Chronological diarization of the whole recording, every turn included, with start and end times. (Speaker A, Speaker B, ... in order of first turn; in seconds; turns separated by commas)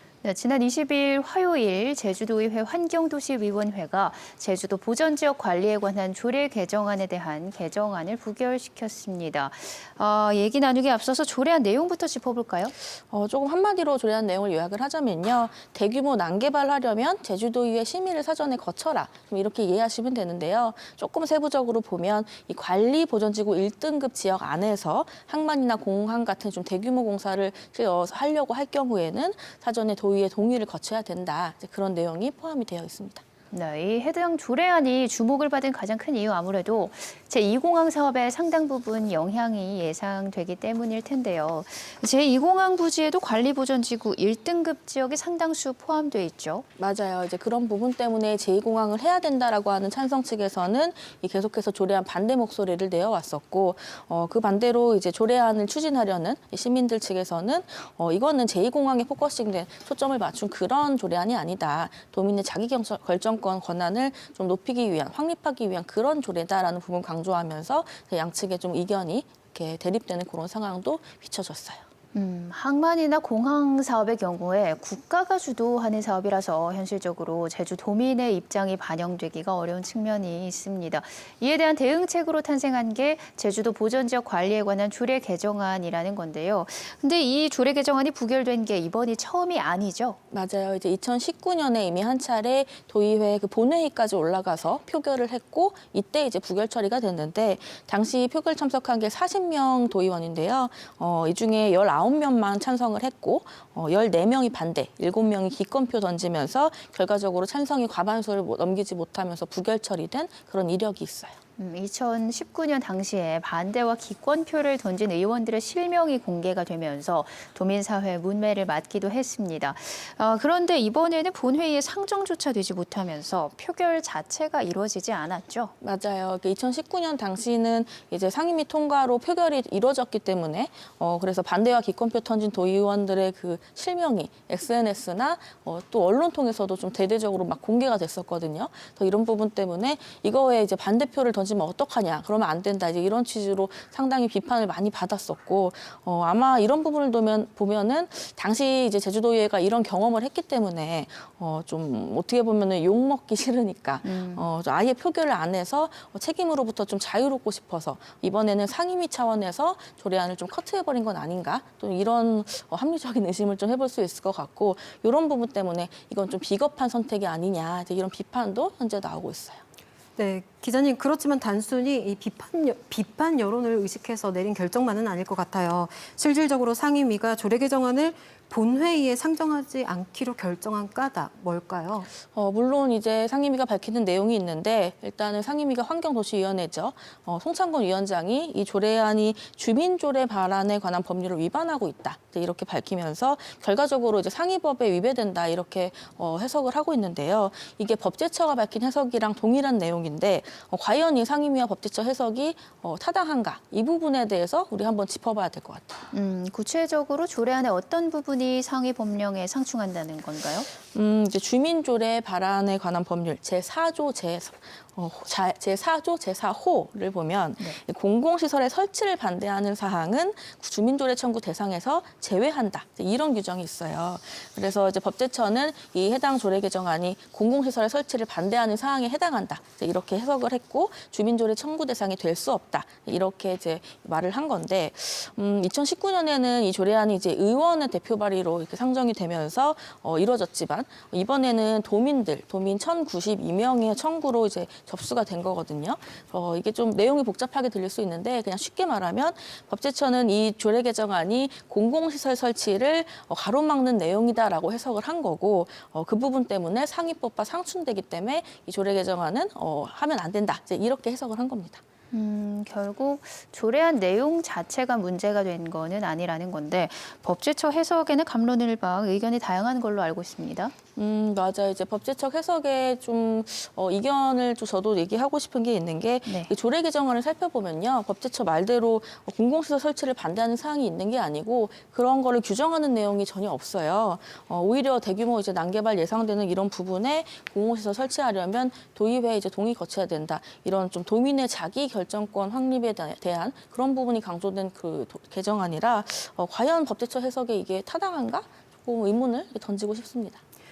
Speaker A: 0.2-12.7, Speaker B: 12.8-33.2, Speaker A: 33.5-46.6, Speaker B: 46.8-71.8, Speaker A: 72.1-90.2, Speaker B: 90.3-111.3, Speaker A: 111.6-125.7, Speaker B: 125.8-169.6, Speaker A: 154.0-154.4, Speaker C: 170.2-182.1, Speaker B: 182.2-206.0, Speaker A: 206.1-210.7, Speaker B: 210.9-261.8, Speaker A: 262.1-270.7, Speaker B: 271.0-300.4, Speaker A: 276.2-276.5